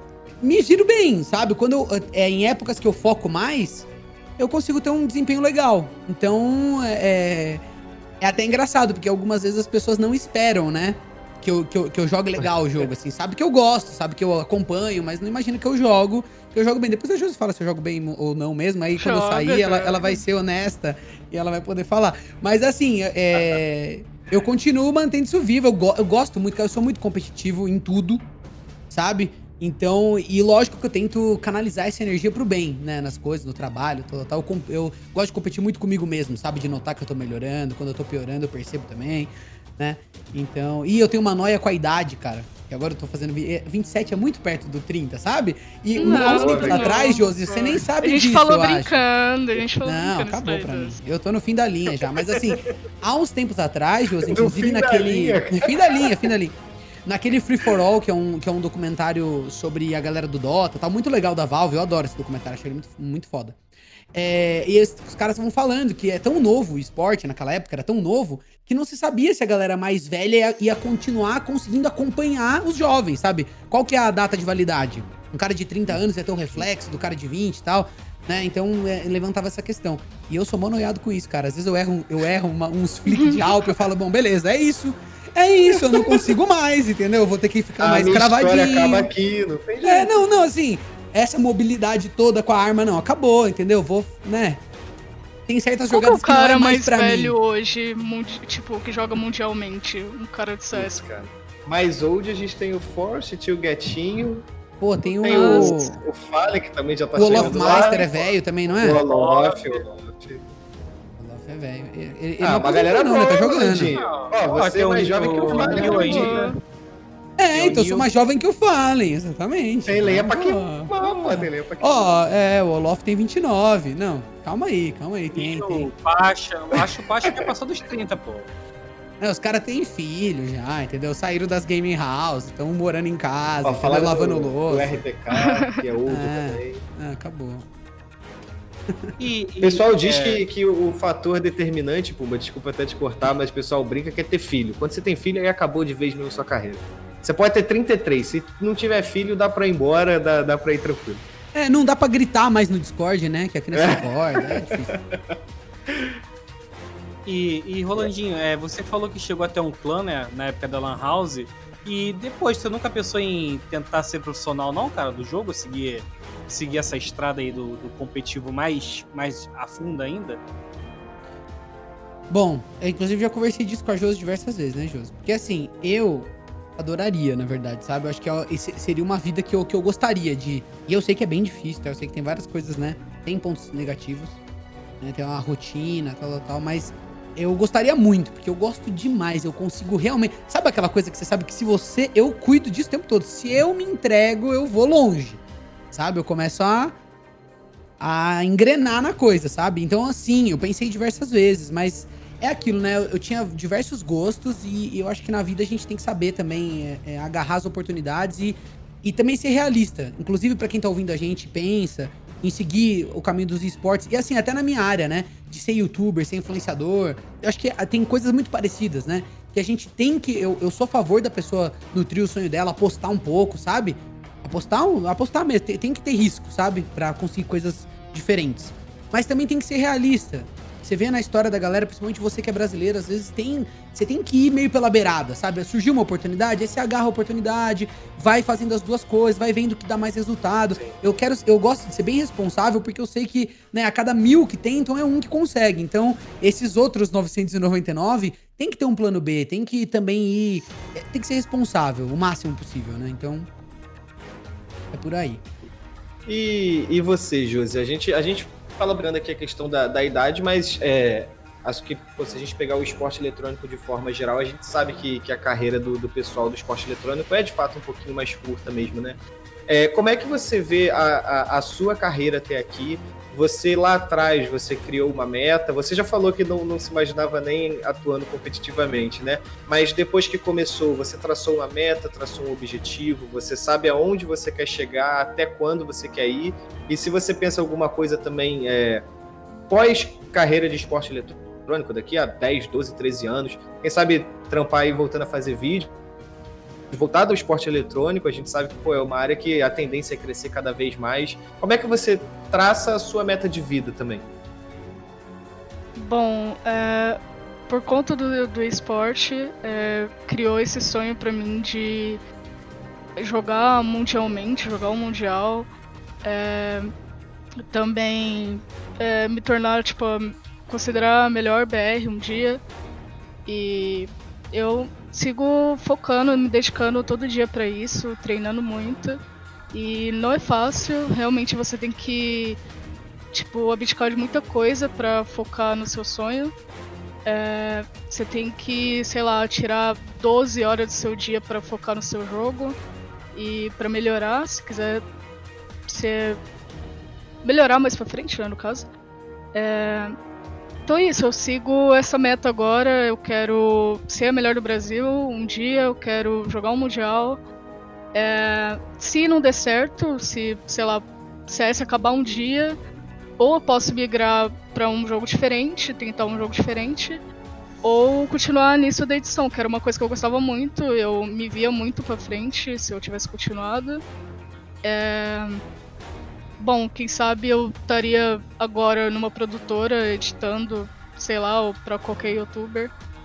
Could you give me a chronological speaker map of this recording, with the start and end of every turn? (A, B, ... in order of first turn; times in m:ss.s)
0:00.4-0:03.9 A
0:04.4-0:07.6 A
0:08.2-0:28.3 A
0:19.0-0:20.2 B
0:28.9-0:49.0 A
0:46.0-0:51.0 B
0:46.0-0:47.0 C
0:49.8-1:03.6 A
0:52.3-0:52.7 C
0:54.2-0:56.1 C
1:04.1-1:29.1 A
1:23.1-1:23.4 B
1:25.9-1:26.3 C
1:27.8-1:30.1 C
1:29.8-1:34.6 A
1:35.5-1:37.4 A
1:35.9-1:41.0 B
1:40.7-1:44.5 C
1:44.8-1:46.0 A
1:45.0-1:50.4 C
1:45.3-1:45.8 B
1:47.1-1:49.0 A
1:47.2-1:48.1 D
1:48.8-1:49.8 D
1:51.2-1:53.9 A
1:52.4-1:56.5 C
1:53.9-1:56.4 D
1:55.4-1:56.6 B
1:57.4-2:05.9 A
1:57.5-1:58.1 C
1:59.9-2:02.2 C
2:01.0-2:01.4 D
2:05.3-2:08.5 D
2:09.2-2:15.0 A
2:13.6-2:16.8 C
2:16.1-2:17.6 A
2:19.2-2:20.4 D
2:19.6-2:31.2 C
2:31.5-2:34.9 A
2:33.8-2:35.4 C
2:37.3-2:50.4 D
2:52.3-3:04.4 A
3:05.0-3:17.0 A
3:18.0-4:13.5 A
4:00.7-4:01.0 D
4:14.9-4:15.4 A
4:16.3-4:49.1 C
4:49.7-4:55.9 C
4:56.9-5:04.3 C
5:06.0-5:12.2 B
5:13.2-5:15.7 B
5:16.2-5:16.9 B
5:17.7-5:22.6 B
5:23.5-5:29.2 B
5:29.7-5:32.6 B
5:33.3-5:36.5 B
5:37.3-5:42.8 B
5:43.3-5:45.0 B
5:45.9-5:46.4 B
5:47.4-5:48.9 B
5:49.5-5:50.2 B
5:50.9-5:57.4 B
5:58.1-6:02.8 B
6:03.4-6:07.2 B
6:07.8-6:14.0 B
6:14.8-6:15.6 B
6:16.6-6:22.9 B